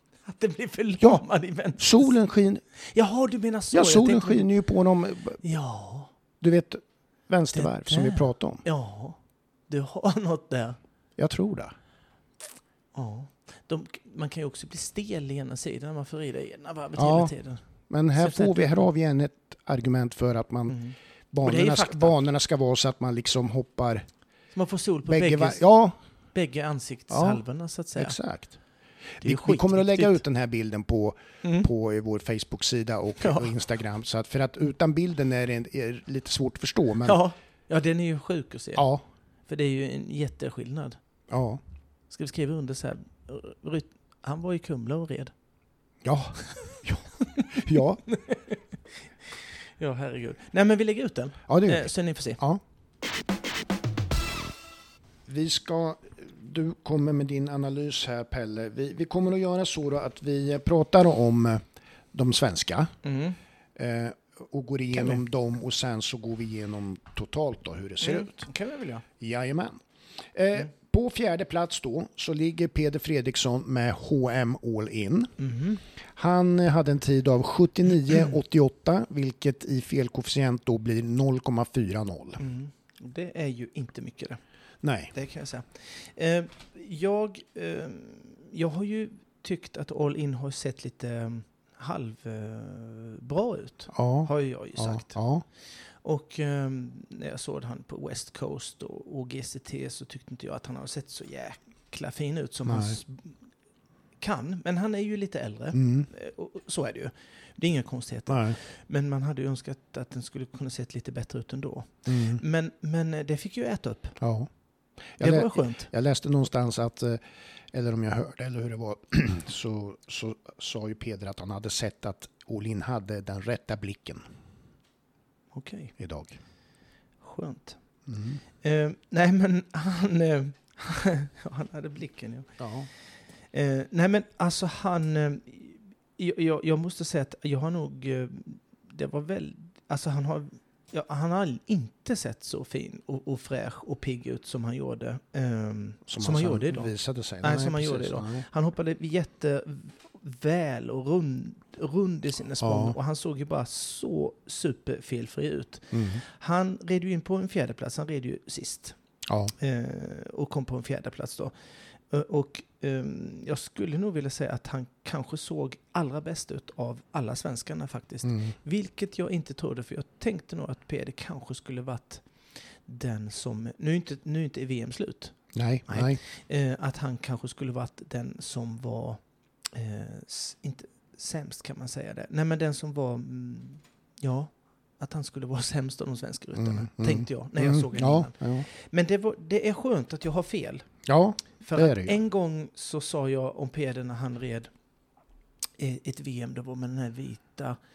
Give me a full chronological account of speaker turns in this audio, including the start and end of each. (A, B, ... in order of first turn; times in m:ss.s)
0:00.2-0:02.1 A
0:01.8-0:02.6 B
0:02.8-0:04.5 A
0:03.7-0:05.4 B
0:05.4-0:06.1 A
0:06.4-0:08.6 B
0:07.5-0:10.8 A
0:11.2-0:11.7 B
0:12.9-0:17.6 A
0:17.0-0:17.3 B
0:17.9-0:20.8 B
0:18.2-0:18.9 A
0:20.7-0:22.2 A
0:21.3-0:24.1 B
0:24.5-0:25.6 A
0:25.1-0:26.0 B
0:26.4-0:28.2 A
0:27.1-0:27.4 B
0:28.0-0:28.6 B
0:29.2-0:37.2 B
0:29.2-0:30.2 A
0:31.4-0:31.7 A
0:33.2-0:33.5 A
0:37.0-0:38.9 A
0:38.8-0:39.0 B
0:39.5-0:41.0 A
0:41.3-0:41.6 B
0:42.1-0:45.3 A
0:46.0-0:48.0 B
0:47.3-0:48.6 A
0:49.4-0:52.4 A
0:51.5-0:52.6 B
0:55.3-1:01.6 B
1:02.1-1:02.9 B
1:03.0-1:03.4 A
1:03.8-1:08.5 B
1:04.9-1:05.2 A
1:08.0-1:09.0 A
1:09.2-1:09.8 B
1:10.3-1:15.3 B
1:15.4-1:15.8 A
1:16.1-1:22.4 B
1:22.4-1:24.4 A
1:24.8-1:25.1 B
1:25.1-1:35.2 A
1:33.9-1:35.4 B
1:36.0-1:43.4 A
1:42.7-1:43.0 B
1:44.2-1:54.2 A
1:45.7-1:46.1 B
1:48.3-1:48.6 B
1:52.1-1:52.4 B
1:54.2-1:54.5 B
1:55.2-2:04.2 B
1:55.2-1:55.9 A
2:05.5-2:05.9 A
2:06.0-2:06.4 B
2:07.2-2:07.8 A
2:08.1-2:08.4 B
2:08.6-2:12.6 A
2:12.6-2:12.9 B
2:13.5-2:26.9 A
2:26.1-2:28.5 B
2:27.4-2:39.0 A
2:32.6-2:33.0 B
2:35.9-2:36.2 B
2:39.3-2:39.5 B
2:39.6-2:41.5 A
2:42.1-2:52.2 A
2:48.2-2:48.5 B
2:52.8-2:55.4 A
2:55.6-2:56.2 B
2:55.9-2:59.2 A
2:59.7-3:10.9 A
3:06.6-3:08.7 B
3:11.1-3:12.2 B
3:11.6-3:14.7 A
3:15.8-3:17.8 A